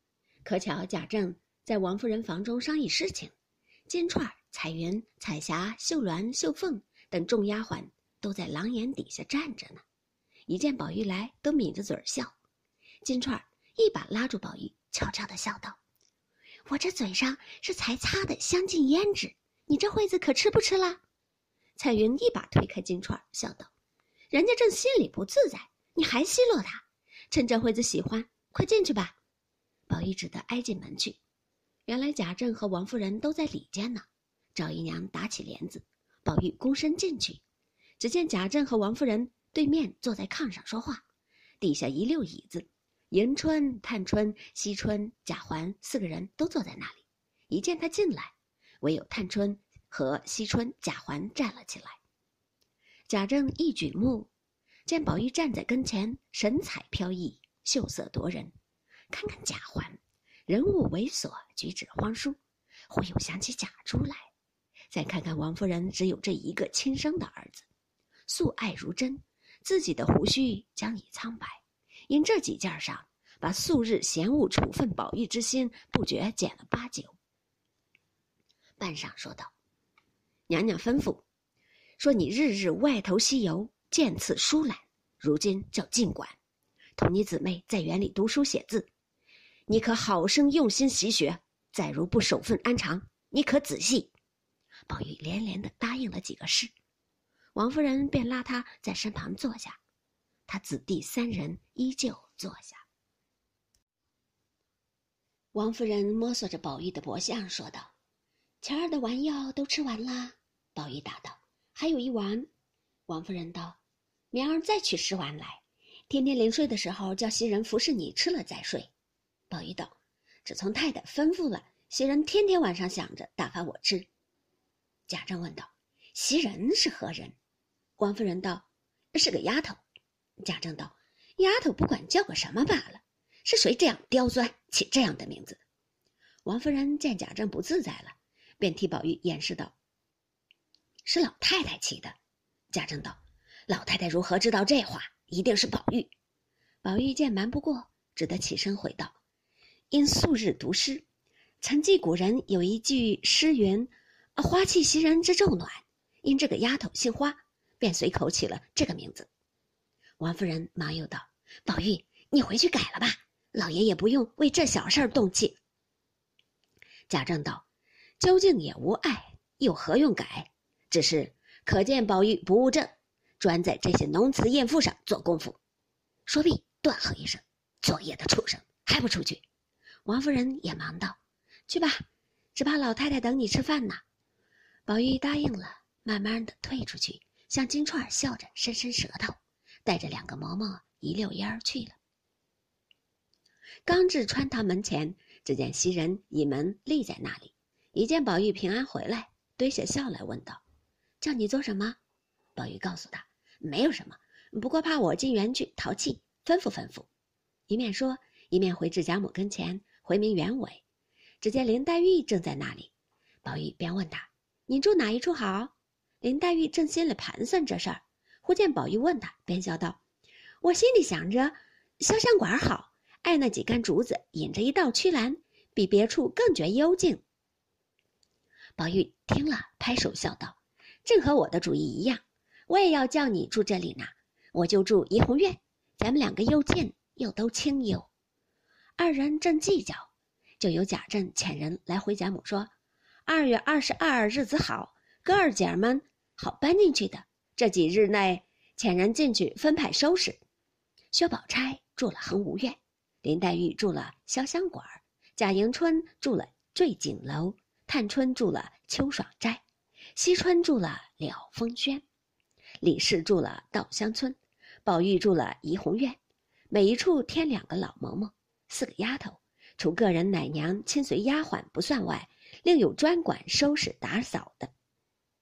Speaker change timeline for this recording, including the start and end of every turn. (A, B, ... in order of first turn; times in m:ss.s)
0:00.4-0:03.3 A
0:03.9-0:09.8 A
0:10.5-0:12.4 A
0:13.0-0:15.8 A
0:16.7-0:21.0 A
0:21.8-0:23.7 A
0:24.3-0:29.2 A
0:29.9-0:31.2 A
0:31.9-0:37.4 A
0:38.0-0:41.0 A
0:41.6-0:52.0 A
0:53.1-0:54.3 A
0:54.9-0:58.5 A
0:59.1-1:04.3 A
1:04.9-1:07.7 A
1:08.3-1:17.2 A
1:18.8-1:19.5 A
1:20.5-1:21.2 A
1:22.0-1:26.4 A
1:27.0-1:28.9 A
1:29.7-1:34.1 A
1:34.9-1:36.7 A
1:37.6-1:39.8 A
1:40.5-1:42.8 A
1:45.5-1:47.9 A
1:48.6-1:52.5 A
1:53.1-1:53.8 A
1:54.3-1:58.9 A
1:59.5-2:04.1 A
2:05.1-2:07.4 A
2:08.0-2:09.8 A
2:10.4-2:15.6 A
2:16.4-2:19.8 A
2:21.1-2:22.2 A
2:22.7-2:26.1 A
2:26.8-2:29.2 A
2:29.9-2:31.0 A
2:31.6-2:39.3 A
2:40.2-2:45.6 A
2:47.1-2:47.6 A
2:48.2-2:55.6 A
2:56.3-2:59.4 A
3:00.1-3:02.0 A
3:02.6-3:04.0 A
3:04.9-3:12.0 A
3:13.9-3:20.6 A
3:21.2-3:22.0 A
3:22.6-3:27.1 A
3:27.7-3:30.8 A
3:31.4-3:32.9 A
3:33.4-3:40.0 A
3:40.6-3:47.2 A
3:48.8-3:58.1 A
3:59.0-4:02.7 A
4:03.3-4:10.4 A
4:11.1-4:19.6 A
4:20.2-4:22.0 A
4:22.8-4:26.2 A
4:26.7-4:34.7 A